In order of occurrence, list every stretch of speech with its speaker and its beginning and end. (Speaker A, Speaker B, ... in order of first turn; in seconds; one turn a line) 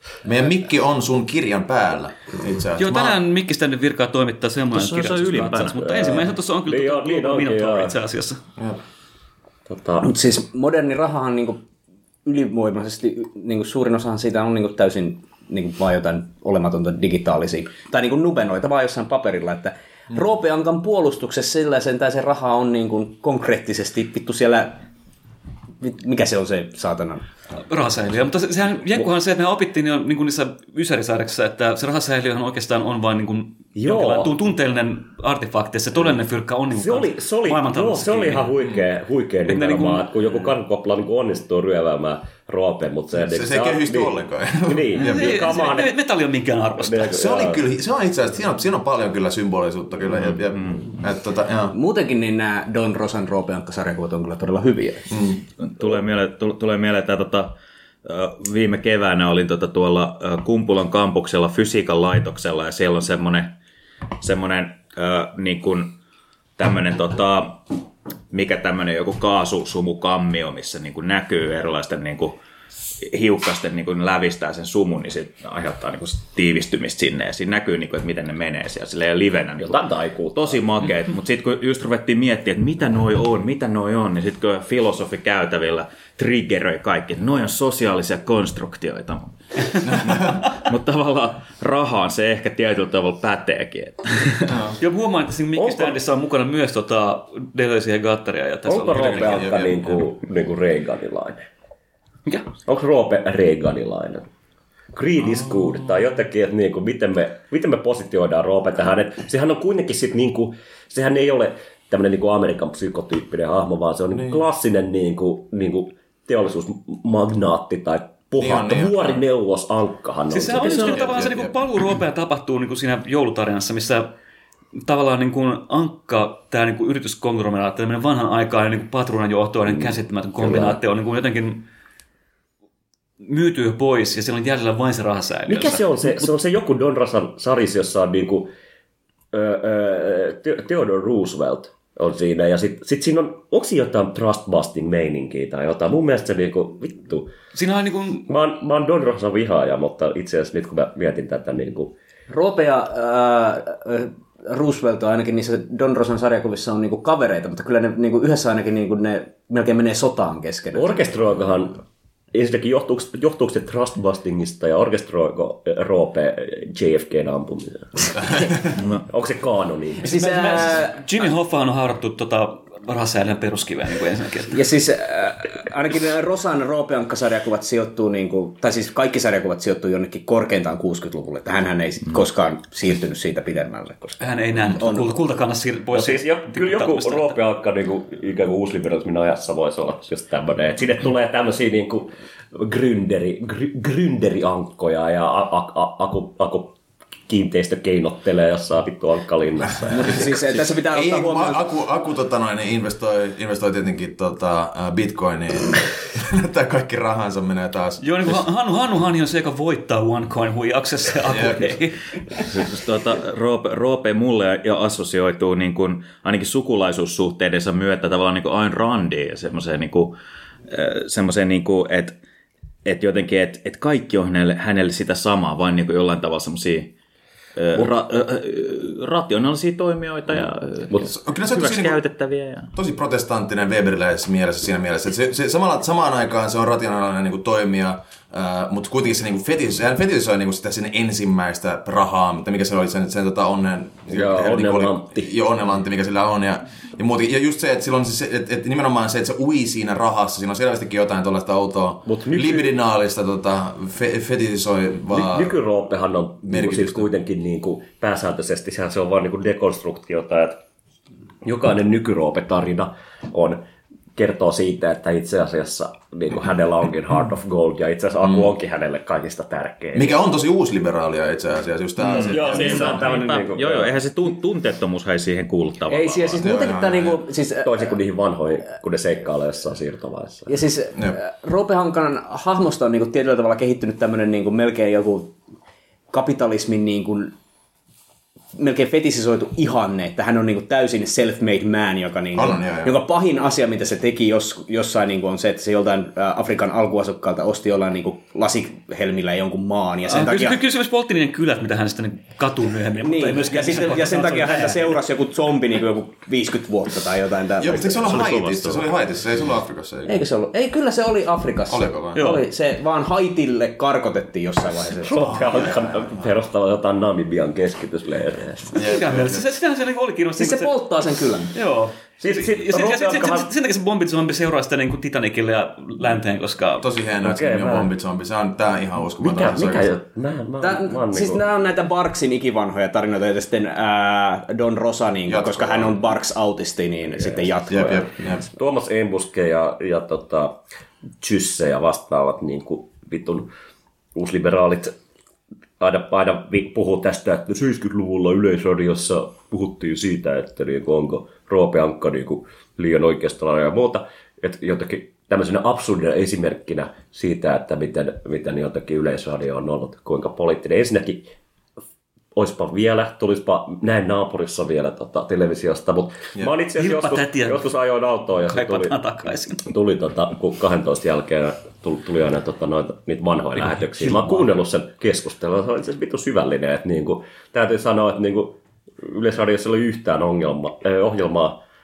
Speaker A: 0.2-3.2
Speaker B: 2.8-8.4
Speaker C: 4.7-8.0
Speaker D: 4.8-5.5
Speaker C: 9.7-10.1
Speaker E: 10.0-11.6
Speaker E: 12.2-24.8
Speaker E: 25.8-27.2
Speaker B: 27.7-38.5
Speaker C: 33.8-34.4
Speaker C: 36.7-45.9
Speaker B: 39.5-40.1
Speaker A: 43.2-45.5
Speaker B: 44.9-47.1
Speaker C: 46.8-47.6
Speaker A: 47.1-51.7
Speaker D: 50.5-50.8
Speaker E: 51.7-55.2
Speaker A: 55.1-55.4
Speaker D: 55.6-57.5
Speaker D: 58.0-63.5
Speaker D: 64.2-66.0
Speaker D: 66.6-72.4
Speaker D: 73.0-94.6
Speaker C: 79.6-80.6
Speaker A: 89.8-90.5
Speaker A: 94.5-94.8
Speaker B: 94.8-99.6
Speaker C: 95.5-96.0
Speaker C: 98.7-101.4
Speaker A: 99.0-100.0
Speaker C: 102.7-104.3
Speaker C: 104.9-121.2
Speaker A: 118.4-119.2
Speaker B: 120.3-124.1
Speaker A: 120.7-121.5
Speaker B: 124.8-131.7
Speaker C: 129.7-130.8
Speaker B: 133.2-136.3
Speaker C: 135.5-138.5
Speaker C: 139.3-147.3
Speaker B: 147.5-148.3
Speaker C: 148.3-151.9
Speaker E: 152.3-161.1
Speaker C: 160.7-168.3
Speaker D: 168.8-169.0
Speaker C: 169.1-170.2
Speaker E: 170.0-171.0
Speaker B: 170.1-174.6
Speaker E: 174.5-185.1
Speaker B: 184.2-187.4
Speaker C: 185.9-196.7
Speaker C: 197.3-200.4
Speaker E: 199.9-201.6
Speaker A: 200.9-208.0
Speaker B: 208.0-212.1
Speaker A: 211.3-211.7
Speaker D: 212.6-220.1
Speaker D: 220.7-222.2
Speaker D: 222.8-226.9
Speaker D: 227.6-232.7
Speaker A: 231.2-232.0
Speaker A: 232.7-255.6
Speaker C: 244.1-245.3
Speaker C: 252.1-252.7
Speaker C: 255.1-260.6
Speaker A: 256.5-257.1
Speaker C: 261.4-263.6
Speaker C: 264.1-270.1
Speaker A: 269.9-273.2
Speaker D: 272.1-276.4
Speaker C: 272.1-273.9
Speaker E: 275.9-277.9
Speaker A: 276.4-277.2
Speaker C: 277.6-280.6
Speaker E: 280.5-285.4
Speaker E: 286.1-287.3
Speaker E: 288.6-300.6
Speaker A: 292.3-292.9
Speaker B: 300.1-304.9
Speaker E: 303.0-308.2
Speaker A: 307.6-310.2
Speaker D: 308.1-308.9
Speaker E: 310.1-315.7
Speaker A: 311.7-312.3
Speaker B: 312.1-312.4
Speaker C: 315.0-318.8
Speaker A: 315.1-316.3
Speaker A: 318.7-319.5
Speaker B: 318.8-320.7
Speaker E: 320.4-321.6
Speaker B: 321.5-326.9
Speaker C: 322.2-323.5
Speaker A: 326.8-329.9
Speaker C: 327.2-327.9
Speaker C: 329.2-331.4
Speaker E: 330.6-338.1
Speaker A: 335.3-336.0
Speaker A: 337.7-338.4
Speaker C: 338.4-340.6
Speaker C: 341.2-343.5
Speaker C: 344.1-344.9
Speaker C: 345.8-361.3
Speaker C: 362.3-369.0
Speaker B: 366.8-367.7
Speaker B: 368.4-369.6
Speaker C: 369.6-381.6